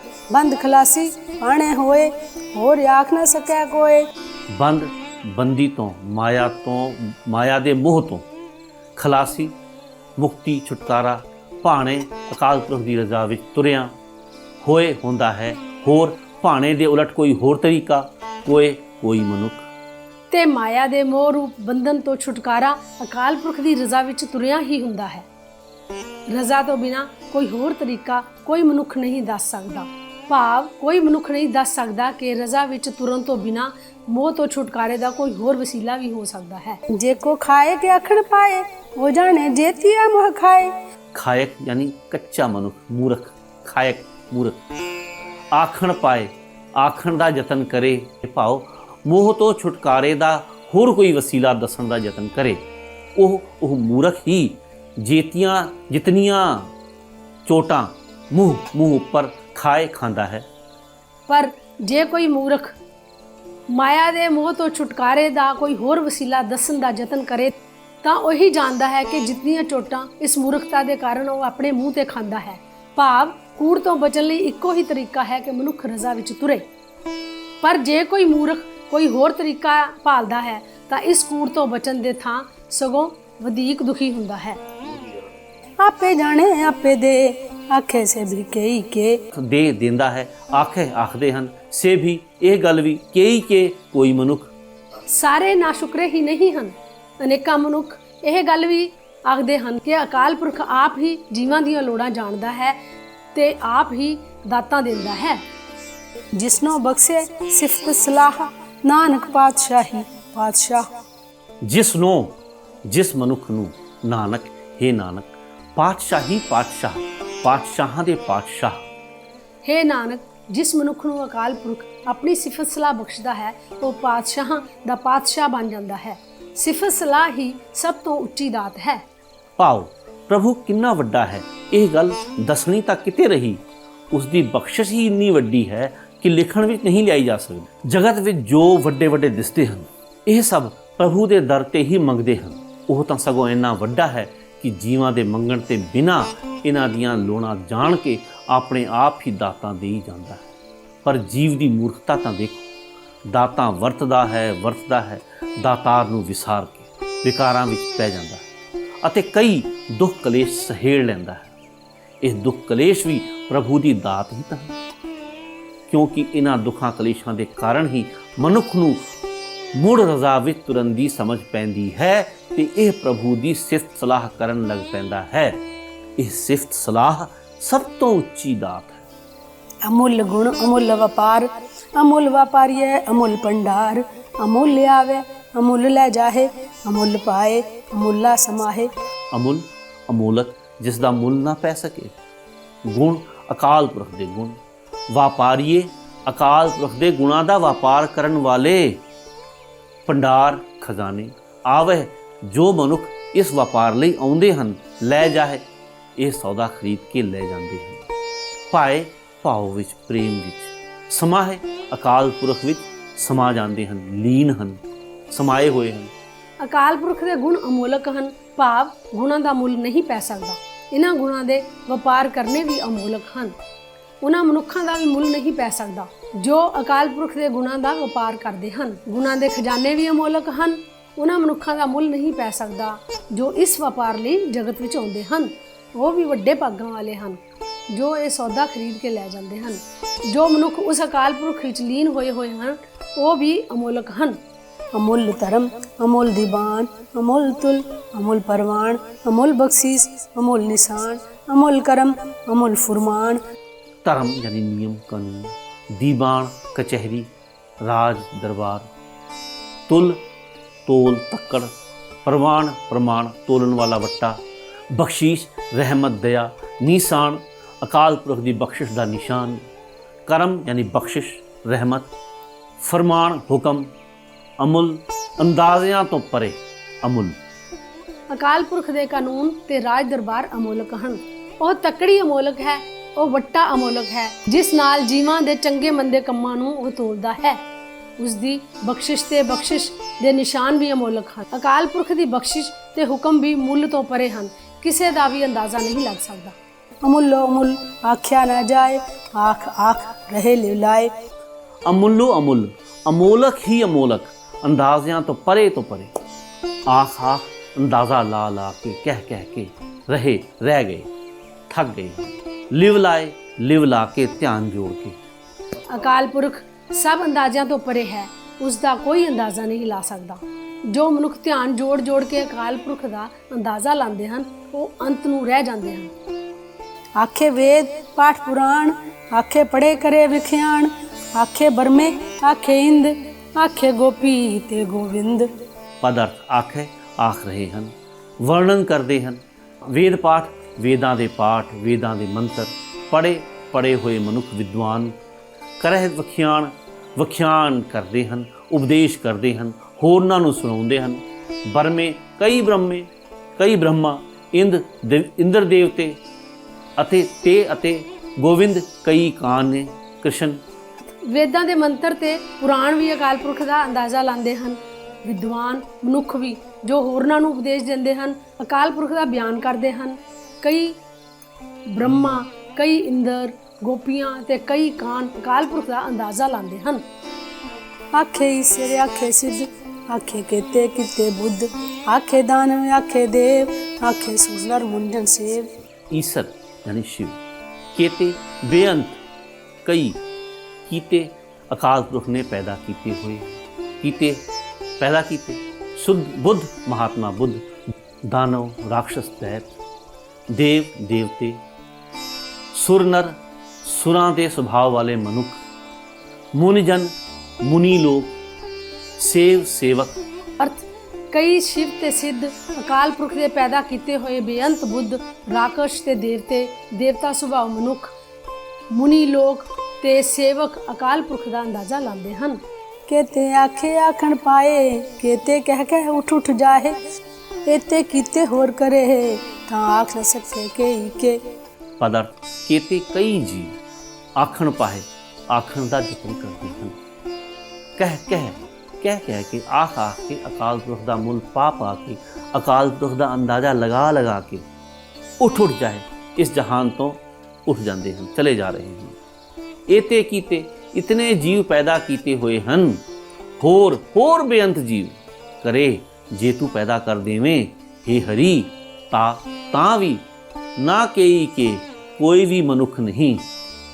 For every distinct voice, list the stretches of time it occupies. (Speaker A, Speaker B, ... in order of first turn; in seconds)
Speaker A: 0.3-4.1, 36.9-40.8, 85.8-89.2, 106.3-110.9, 179.8-188.9, 244.9-253.4, 297.0-301.1, 327.2-335.5, 378.1-385.7, 423.1-427.0, 427.6-431.4
Speaker B: 4.5-8.2, 8.9-9.5, 10.2-13.9, 14.6-19.7, 41.1-44.6, 45.5-52.6, 53.1-56.7, 57.5-60.5, 89.3-94.5, 111.6-112.4, 112.9-118.8, 129.6-150.5, 151.0-152.6, 153.3-158.4, 159.0-161.5, 162.2-164.7, 165.9-169.0, 169.7-175.6, 176.2-179.1, 189.3-192.1, 192.8-194.6, 195.1-199.0, 200.1-205.6, 206.2-208.0, 208.7-214.8, 215.3-216.1, 254.0-257.3, 257.8-258.9, 259.9-260.2, 260.9-261.7, 262.2-264.4, 264.9-269.6, 270.2-272.1, 272.8-273.9, 274.6-277.4, 301.8-306.1, 306.9-311.1, 311.7-315.2, 336.0-345.1, 345.8-356.2, 357.0-360.6, 386.1-387.4, 387.9-389.2, 389.8-390.2, 390.9-394.4, 395.0-397.7, 398.2-399.6, 400.5-401.6, 402.7-405.6, 406.5-408.3, 409.2-410.2, 432.0-433.8, 434.4-437.0, 438.0-444.6, 445.4-449.1, 449.9-453.0, 453.6-460.2, 460.8-463.4
Speaker C: 20.3-25.3, 26.3-36.8, 61.3-62.8, 63.7-76.7, 77.6-84.6, 95.1-102.8, 103.3-105.4, 119.6-129.0, 216.6-223.5, 224.2-244.4, 278.3-287.6, 288.2-296.5, 315.9-326.1, 361.2-371.0, 371.9-377.0, 410.6-418.1, 418.9-422.6